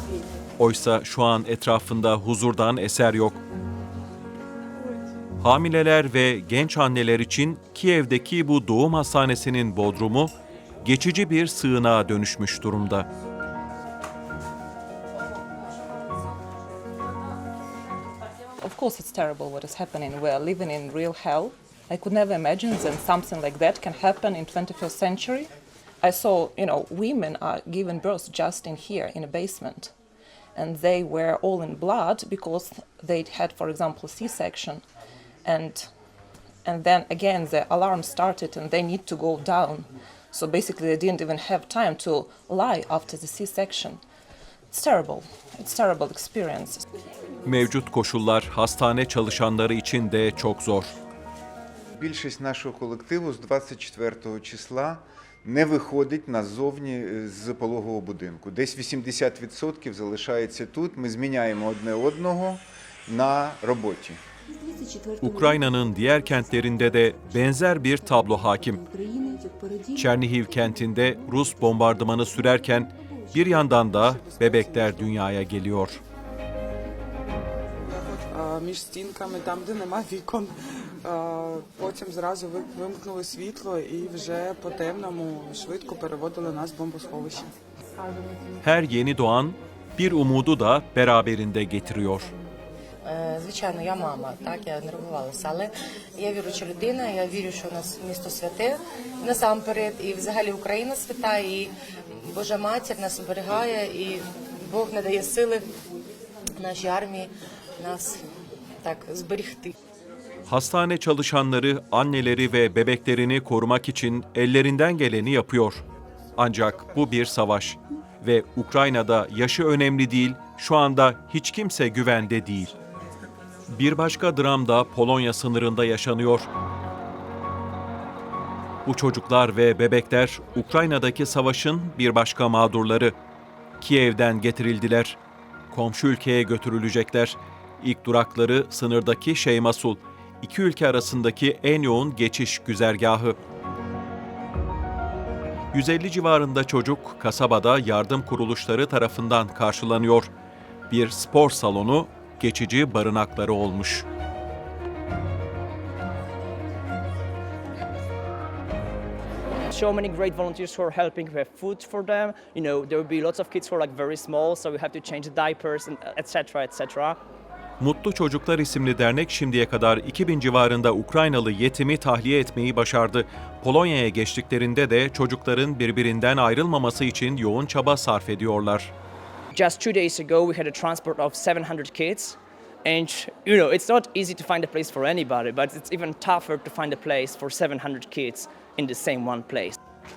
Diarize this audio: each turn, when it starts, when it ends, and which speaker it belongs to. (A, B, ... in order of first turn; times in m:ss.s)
0:00.6-0:03.4 A
0:05.4-0:10.3 A
0:10.8-0:13.1 A
0:18.6-0:25.5 B
0:26.0-0:29.9 B
0:30.6-0:34.8 B
0:35.4-0:35.9 B
0:36.6-0:44.0 B
0:44.7-0:46.8 B
0:47.4-0:50.9 A
0:52.0-1:04.2 C
1:05.2-1:08.9 A
1:09.9-1:16.0 A
1:13.9-1:15.0 D
1:18.3-1:27.5 D
1:28.6-1:32.3 A
1:33.0-1:45.6 E
1:46.6-1:48.2 E
1:48.8-1:49.7 E
1:50.5-1:55.8 A
1:56.4-2:02.8 A
2:03.7-2:06.5 A
2:08.9-2:13.2 A
2:13.8-2:15.2 A
2:15.7-2:23.4 A
2:25.7-2:30.3 A
2:30.9-2:34.1 A
2:39.7-2:47.2 F
2:47.8-2:58.9 A
2:59.6-3:09.8 F